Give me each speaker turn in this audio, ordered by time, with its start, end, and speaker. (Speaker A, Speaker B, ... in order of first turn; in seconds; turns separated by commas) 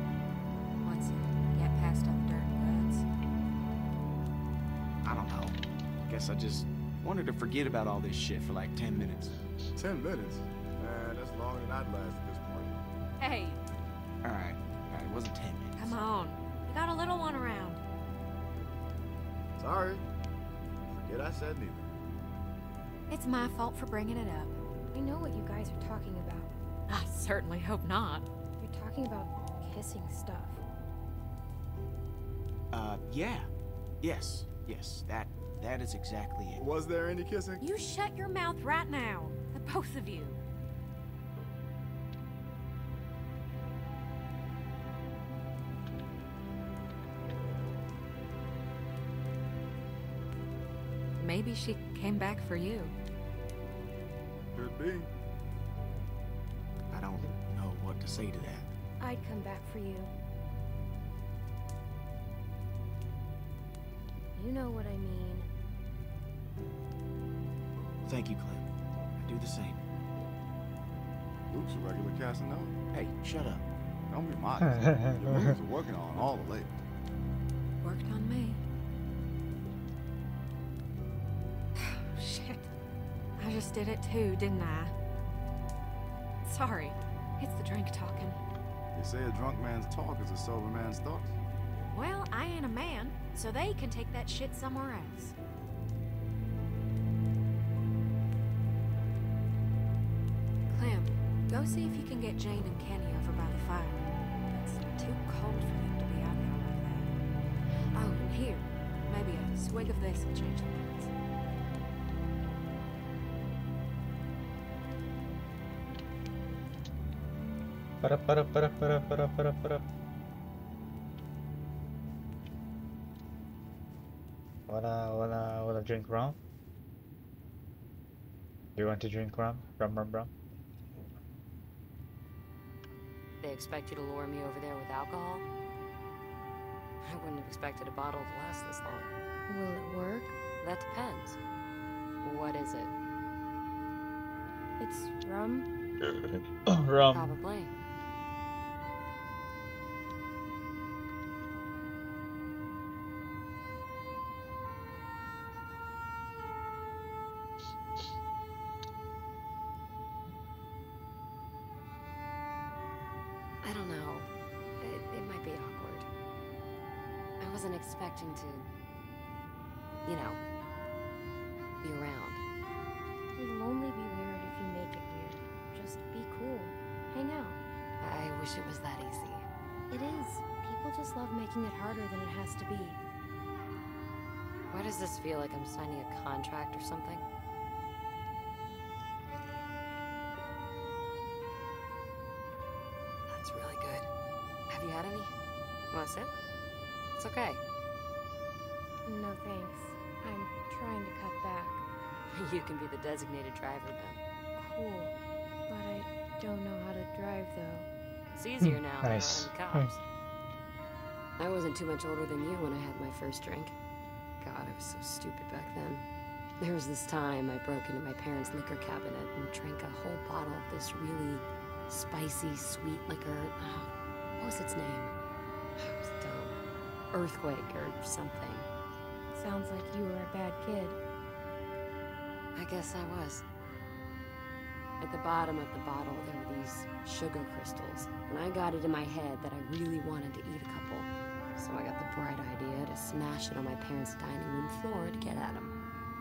Speaker A: 0.8-3.0, Speaker B: 5.0-9.4, Speaker C: 9.8-12.8, Speaker A: 13.2-13.6, Speaker B: 14.2-15.9, Speaker A: 15.7-17.8, Speaker C: 19.6-20.0, Speaker C: 20.9-21.9, Speaker A: 23.1-24.5, Speaker D: 24.9-26.5, Speaker A: 26.9-28.3, Speaker D: 28.6-30.6, Speaker B: 32.7-33.5, Speaker B: 34.0-36.6, Speaker C: 36.6-37.6, Speaker A: 37.6-40.4, Speaker A: 51.2-52.9, Speaker C: 54.5-55.1, Speaker B: 56.9-58.7, Speaker D: 59.0-60.1, Speaker D: 64.3-65.5, Speaker B: 68.0-68.6, Speaker B: 69.2-69.8, Speaker C: 71.5-72.7, Speaker B: 72.9-73.6, Speaker C: 74.1-76.8, Speaker E: 74.6-75.6, Speaker A: 77.8-78.6, Speaker A: 81.8-82.7, Speaker A: 83.4-84.9, Speaker A: 86.4-88.4, Speaker C: 88.9-91.3, Speaker A: 91.9-95.3, Speaker A: 100.7-107.1, Speaker A: 107.9-111.1, Speaker E: 118.0-119.8, Speaker E: 124.7-126.4, Speaker E: 128.8-130.3, Speaker F: 133.4-135.4, Speaker F: 137.0-139.1, Speaker D: 139.5-140.3, Speaker F: 140.6-141.4, Speaker F: 142.2-142.9, Speaker D: 144.8-145.7, Speaker E: 146.0-147.4, Speaker F: 147.1-147.7, Speaker F: 163.6-166.1, Speaker F: 167.4-168.7, Speaker F: 170.0-170.4, Speaker F: 171.8-172.4, Speaker D: 173.4-177.6, Speaker F: 178.0-179.5, Speaker D: 179.9-183.0, Speaker F: 184.7-187.2, Speaker F: 193.3-194.1, Speaker F: 194.7-195.3, Speaker F: 195.9-196.3, Speaker F: 197.1-197.6, Speaker D: 199.0-201.8, Speaker F: 202.3-204.2, Speaker D: 204.6-207.9, Speaker F: 208.3-210.0, Speaker E: 208.6-209.9, Speaker F: 211.4-213.7, Speaker F: 214.4-216.0, Speaker F: 216.6-225.1, Speaker F: 225.8-226.6, Speaker F: 227.1-228.7, Speaker D: 229.3-231.0, Speaker F: 232.5-233.4, Speaker F: 235.0-245.7